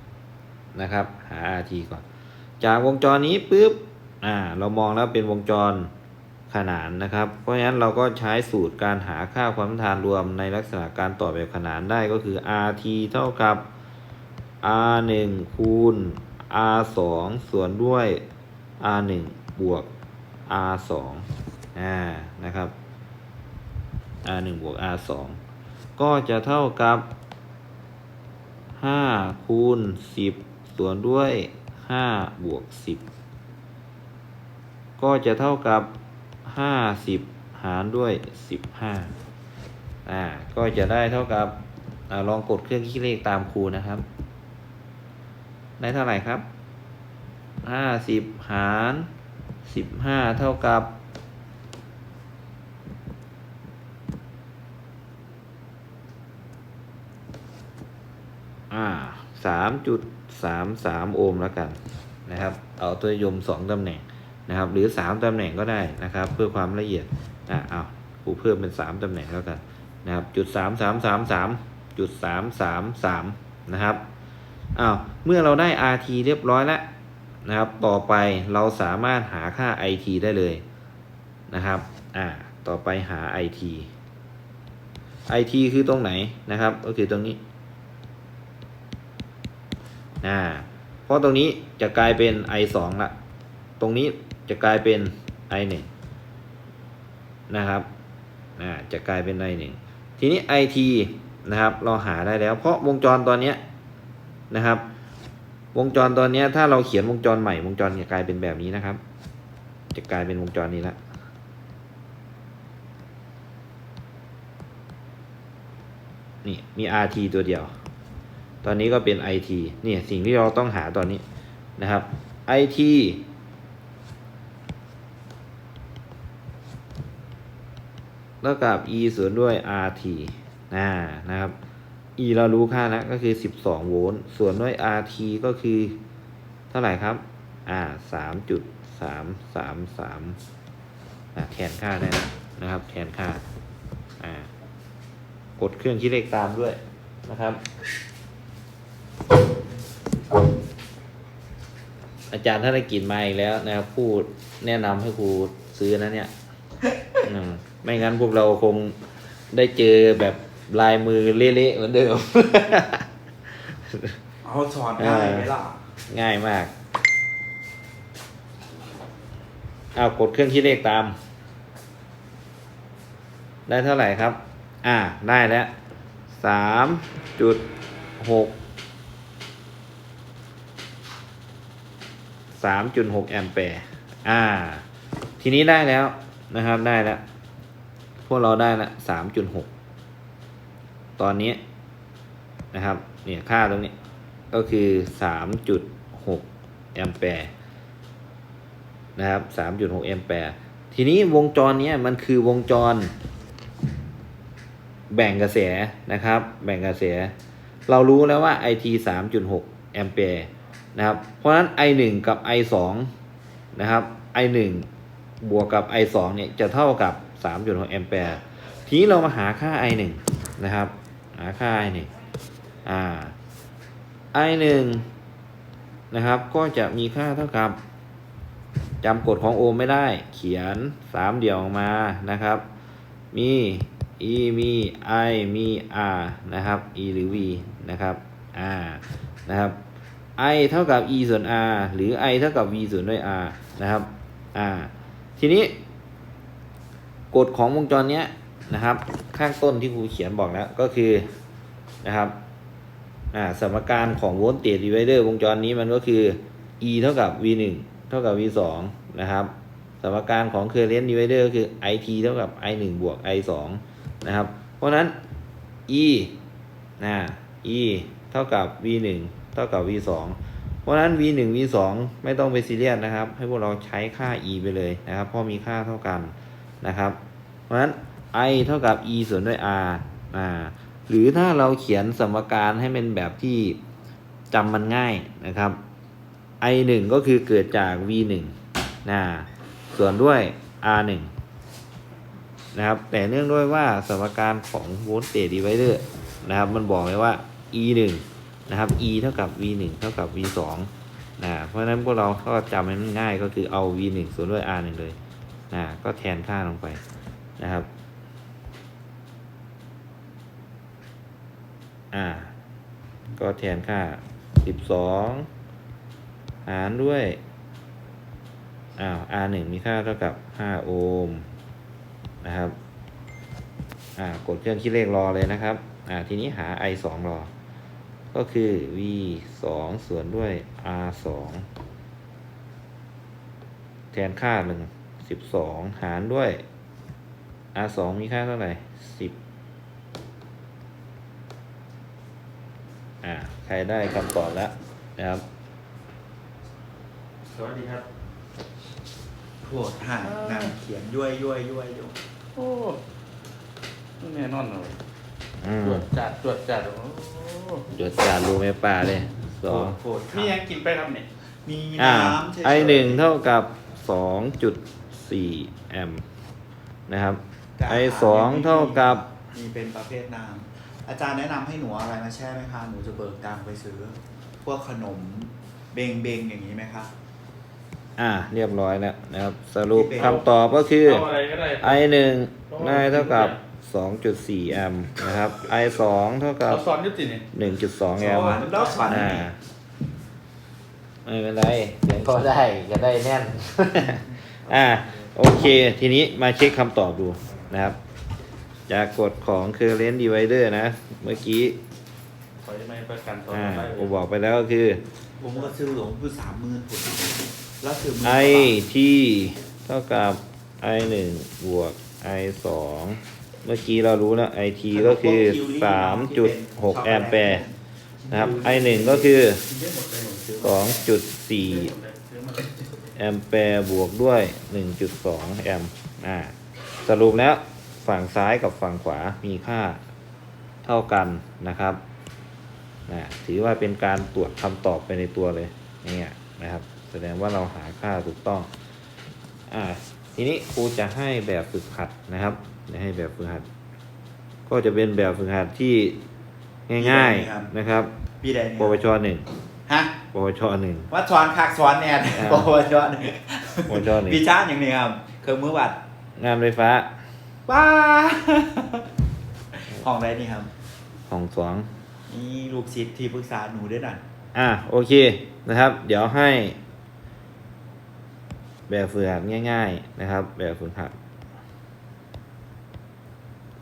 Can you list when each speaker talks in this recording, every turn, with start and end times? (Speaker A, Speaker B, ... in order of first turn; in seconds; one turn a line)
Speaker A: 0.7-2.0
Speaker A: 2.6-5.9
Speaker A: 6.5-13.7
Speaker A: 14.6-18.2
Speaker A: 18.8-19.9
Speaker A: 20.5-22.7
Speaker A: 24.2-25.4
Speaker A: 26.0-27.0
Speaker A: 28.8-33.0
Speaker A: 35.0-35.9
Speaker A: 36.4-39.1
Speaker A: 40.0-41.5
Speaker A: 42.1-44.0
Speaker A: 45.8-46.5
Speaker A: 47.6-49.1
Speaker A: 49.6-50.9
Speaker A: 58.7-74.0
Speaker A: 74.8-76.8
Speaker A: 77.4-80.6
Speaker A: 81.5-83.9
Speaker A: 85.3-87.4
Speaker A: 90.2-93.1
Speaker A: 93.8-95.9
Speaker A: 97.5-97.9
Speaker A: 98.6-103.6
Speaker A: 104.5-104.8
Speaker A: 105.7-109.0
Speaker A: 109.9-111.0
Speaker A: 116.4-117.7
Speaker A: 118.6-121.2
Speaker A: 121.8-123.2
Speaker A: 128.4-131.5
Speaker A: 132.2-136.0
Speaker A: 136.7-140.4
Speaker A: 141.3-143.4
Speaker A: 144.2-144.5
Speaker A: 145.6-147.6
Speaker A: 152.3-156.3
Speaker A: 157.2-159.0
Speaker A: 159.5-163.0
Speaker A: 163.7-164.1
Speaker B: 164.4-165.8
Speaker A: 165.0-165.5
Speaker A: 166.1-166.7
Speaker A: 169.9-171.1
Speaker A: 173.7-175.7
Speaker A: 176.3-177.7
Speaker A: 178.2-178.6
Speaker A: 182.6-184.8
Speaker A: 185.4-187.2
Speaker A: 188.2-189.7
Speaker A: 191.2-191.6
Speaker A: 192.7-193.9
Speaker A: 194.5-197.5
Speaker A: 199.2-203.1
Speaker A: 205.1-207.3
Speaker A: 207.9-213.1
Speaker A: 213.7-214.9
Speaker A: 215.4-222.1
Speaker A: 222.8-223.3
Speaker A: 224.3-225.1
Speaker A: 226.1-227.8
Speaker A: 229.0-232.6
Speaker A: 233.3-239.8
Speaker A: 240.4-245.7
Speaker A: 247.3-251.2
Speaker A: 252.0-252.3
Speaker A: 253.3-265.1
Speaker A: 265.9-266.4
Speaker A: 267.0-277.2
Speaker A: 277.7-283.8
Speaker A: 284.5-285.8
Speaker A: 286.6-288.5
Speaker A: 289.0-291.3
Speaker A: 292.7-305.1
Speaker A: 305.7-307.0
Speaker A: 307.6-307.9
Speaker A: 312.1-312.5
Speaker A: 313.4-315.5
Speaker A: 316.6-317.4
Speaker A: 319.0-321.4
Speaker A: 322.4-322.7
Speaker A: 324.2-327.5
Speaker A: 328.3-331.6
Speaker A: 334.1-336.6
Speaker A: 337.7-339.4
Speaker A: 343.2-345.4
Speaker C: 347.5-348.0
Speaker B: 349.6-352.1
Speaker C: 350.2-350.7
Speaker C: 352.6-353.0
Speaker C: 354.2-354.9
Speaker A: 355.6-356.1
Speaker C: 355.8-357.8
Speaker A: 357.9-359.9
Speaker B: 359.7-360.6
Speaker C: 360.3-361.3
Speaker B: 361.6-363.2
Speaker A: 362.0-366.2
Speaker A: 367.1-369.2
Speaker B: 367.8-377.1
Speaker A: 378.2-381.3
Speaker B: 379.9-380.4
Speaker C: 380.2-380.4
Speaker C: 381.0-382.0
Speaker A: 381.8-386.9
Speaker C: 382.7-383.6
Speaker C: 386.7-387.4
Speaker A: 387.5-389.6
Speaker B: 388.2-389.5
Speaker C: 388.2-389.1
Speaker A: 391.2-398.0
Speaker A: 398.9-401.8
Speaker C: 402.6-404.1
Speaker A: 403.5-405.0
Speaker B: 405.4-408.8
Speaker A: 408.2-417.6
Speaker B: 414.9-419.3
Speaker A: 418.3-419.6
Speaker C: 419.7-420.7
Speaker B: 420.4-420.9
Speaker A: 420.6-421.9
Speaker C: 421.6-422.8
Speaker A: 423.1-426.5
Speaker A: 427.0-430.0
Speaker A: 430.8-432.0
Speaker A: 433.1-438.7
Speaker A: 439.7-443.6
Speaker A: 444.7-446.2
Speaker A: 446.9-448.1
Speaker B: 447.0-447.7
Speaker B: 448.4-449.0
Speaker A: 448.8-449.4
Speaker B: 449.9-450.1
Speaker A: 450.3-451.1
Speaker B: 451.1-456.0
Speaker A: 452.3-452.7
Speaker A: 453.9-454.4
Speaker A: 456.4-457.1
Speaker B: 457.7-459.0
Speaker B: 459.8-460.7
Speaker A: 461.3-461.9
Speaker B: 462.3-464.2
Speaker A: 464.5-466.8
Speaker A: 468.9-471.1